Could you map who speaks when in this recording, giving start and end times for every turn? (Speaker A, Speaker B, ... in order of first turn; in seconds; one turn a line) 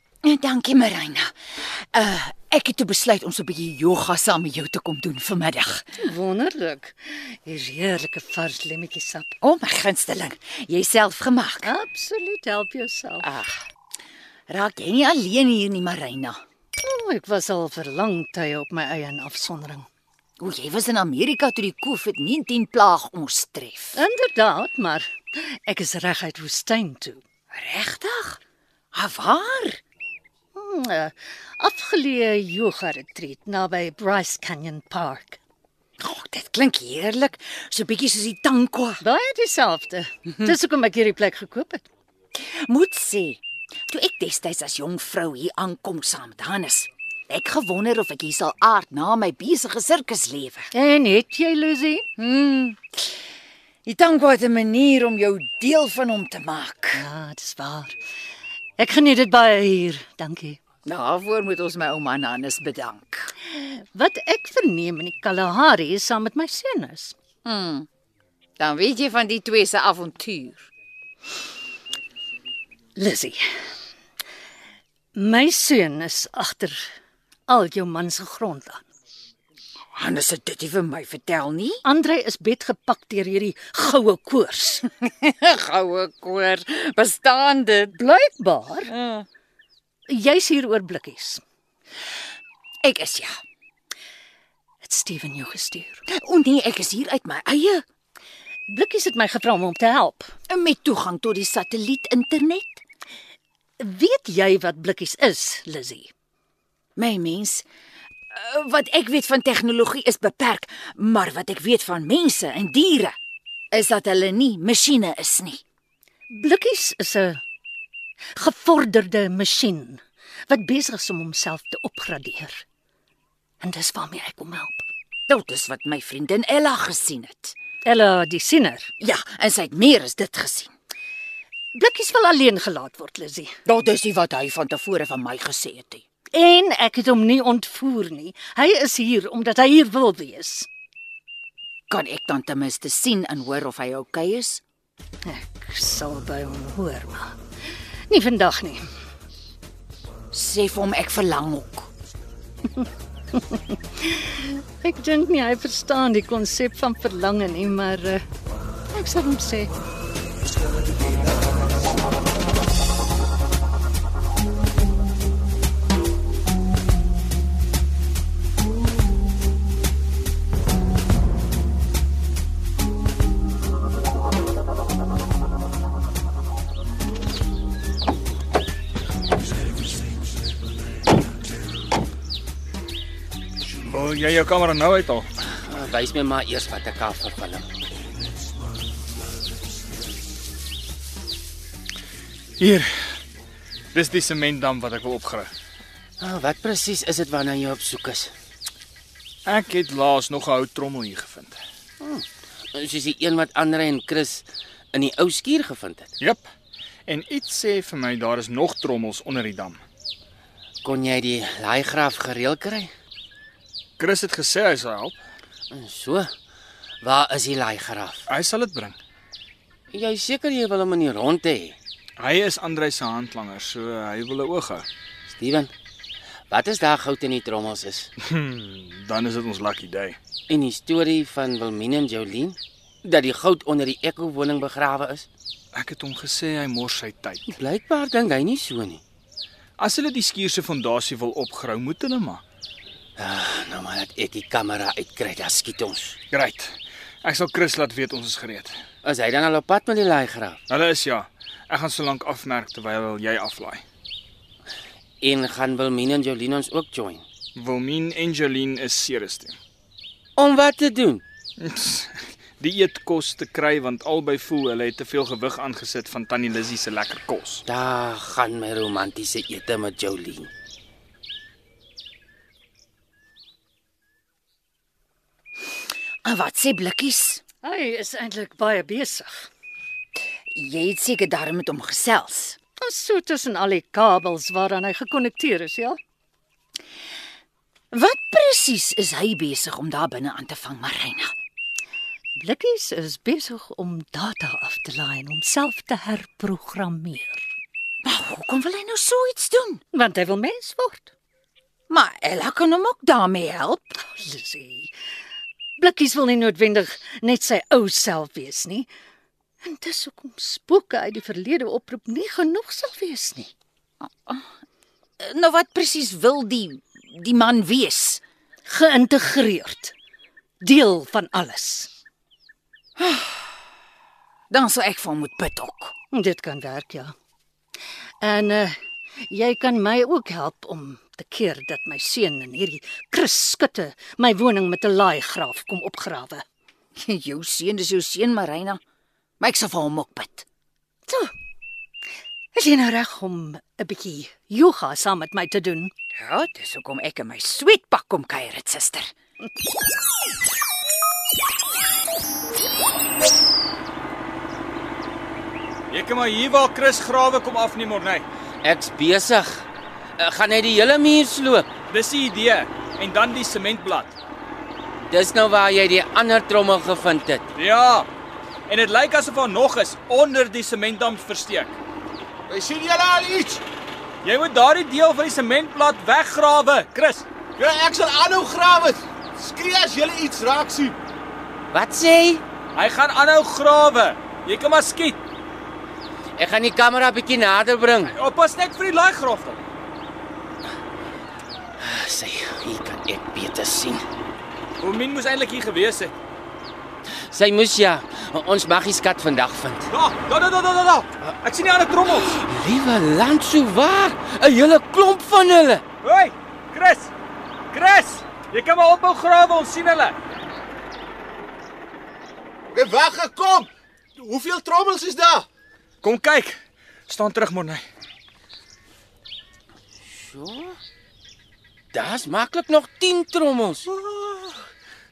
Speaker A: 0.2-5.9
Speaker B: 6.0-9.3
Speaker A: 9.4-11.7
Speaker B: 11.6-13.3
Speaker A: 13.2-13.6
Speaker A: 14.5-16.4
Speaker B: 16.8-19.9
Speaker A: 20.4-24.0
Speaker B: 23.9-27.2
Speaker A: 27.5-28.4
Speaker A: 28.9-29.8
Speaker B: 30.5-35.4
Speaker A: 36.0-39.0
Speaker B: 39.0-41.8
Speaker A: 42.4-50.7
Speaker B: 50.7-52.0
Speaker A: 52.2-53.1
Speaker A: 53.8-57.0
Speaker B: 56.9-57.9
Speaker B: 58.8-60.6
Speaker A: 60.8-63.3
Speaker B: 63.5-67.1
Speaker A: 67.4-67.9
Speaker A: 68.6-70.7
Speaker B: 73.0-73.5
Speaker B: 75.1-76.9
Speaker B: 77.5-78.8
Speaker A: 79.9-81.8
Speaker B: 81.8-84.8
Speaker A: 84.9-87.9
Speaker B: 88.0-88.9
Speaker A: 88.9-89.3
Speaker B: 90.1-91.4
Speaker A: 92.8-93.3
Speaker B: 94.8-96.0
Speaker A: 96.1-97.8
Speaker B: 98.7-100.3
Speaker A: 100.5-102.8
Speaker B: 103.8-106.1
Speaker A: 107.0-107.7
Speaker A: 108.3-113.2
Speaker A: 113.7-115.6
Speaker B: 116.3-117.4
Speaker B: 118.3-122.6
Speaker B: 123.6-124.9
Speaker A: 125.3-127.5
Speaker B: 127.8-128.9
Speaker A: 129.0-130.7
Speaker B: 131.7-133.5
Speaker A: 133.7-136.0
Speaker B: 136.3-140.7
Speaker A: 141.9-144.6
Speaker B: 145.2-147.4
Speaker B: 148.1-148.8
Speaker A: 150.3-151.9
Speaker B: 153.3-158.2
Speaker B: 158.9-159.7
Speaker C: 183.8-185.3
Speaker D: 185.5-187.7
Speaker C: 192.6-193.2
Speaker C: 193.9-195.5
Speaker D: 196.2-198.3
Speaker C: 199.4-201.6
Speaker D: 202.0-206.1
Speaker C: 206.2-206.5
Speaker C: 207.1-209.8
Speaker D: 210.8-212.9
Speaker C: 214.0-215.2
Speaker D: 215.7-216.3
Speaker D: 217.0-218.2
Speaker C: 218.3-219.0
Speaker D: 219.9-221.8
Speaker C: 222.2-224.8
Speaker D: 225.3-225.7
Speaker D: 226.5-228.1
Speaker C: 228.2-230.2
Speaker D: 230.5-235.3
Speaker C: 235.7-237.6
Speaker D: 237.5-239.0
Speaker C: 239.8-242.4
Speaker D: 243.2-246.2
Speaker C: 246.3-248.7
Speaker D: 249.0-250.6
Speaker C: 250.7-253.8
Speaker D: 255.2-257.2
Speaker C: 257.5-259.6
Speaker D: 260.4-261.2
Speaker C: 261.6-267.6
Speaker D: 267.7-270.5
Speaker A: 276.2-277.4
Speaker B: 277.6-279.5
Speaker A: 280.5-282.6
Speaker B: 282.8-286.0
Speaker A: 287.9-291.3
Speaker B: 292.4-297.5
Speaker A: 298.0-299.8
Speaker B: 299.9-301.1
Speaker A: 301.9-304.0
Speaker B: 304.0-304.9
Speaker B: 305.8-308.9
Speaker B: 309.6-313.5
Speaker A: 314.0-314.4
Speaker A: 315.2-318.2
Speaker B: 318.6-319.9
Speaker B: 320.6-321.9
Speaker A: 323.0-323.4
Speaker A: 324.5-325.9
Speaker B: 326.1-327.1
Speaker B: 328.2-336.4
Speaker A: 337.0-338.8
Speaker A: 339.4-340.4
Speaker B: 342.5-345.9
Speaker A: 346.1-349.1
Speaker C: 355.9-358.2
Speaker D: 358.6-359.6
Speaker D: 360.2-361.7
Speaker C: 361.9-364.1
Speaker D: 365.1-367.4
Speaker C: 367.5-368.1
Speaker C: 368.7-371.8
Speaker E: 372.5-373.6
Speaker C: 374.2-377.2
Speaker E: 377.6-381.0
Speaker D: 381.7-382.4
Speaker C: 382.7-385.2
Speaker D: 386.4-388.1
Speaker C: 388.0-389.6
Speaker D: 391.8-394.0
Speaker C: 394.8-396.1
Speaker D: 397.3-399.9
Speaker C: 399.9-402.4
Speaker D: 402.1-405.8
Speaker C: 406.0-407.1
Speaker C: 407.7-410.2
Speaker E: 412.7-415.5
Speaker C: 416.0-417.8
Speaker D: 420.1-420.8
Speaker D: 421.9-423.8
Speaker E: 423.9-424.6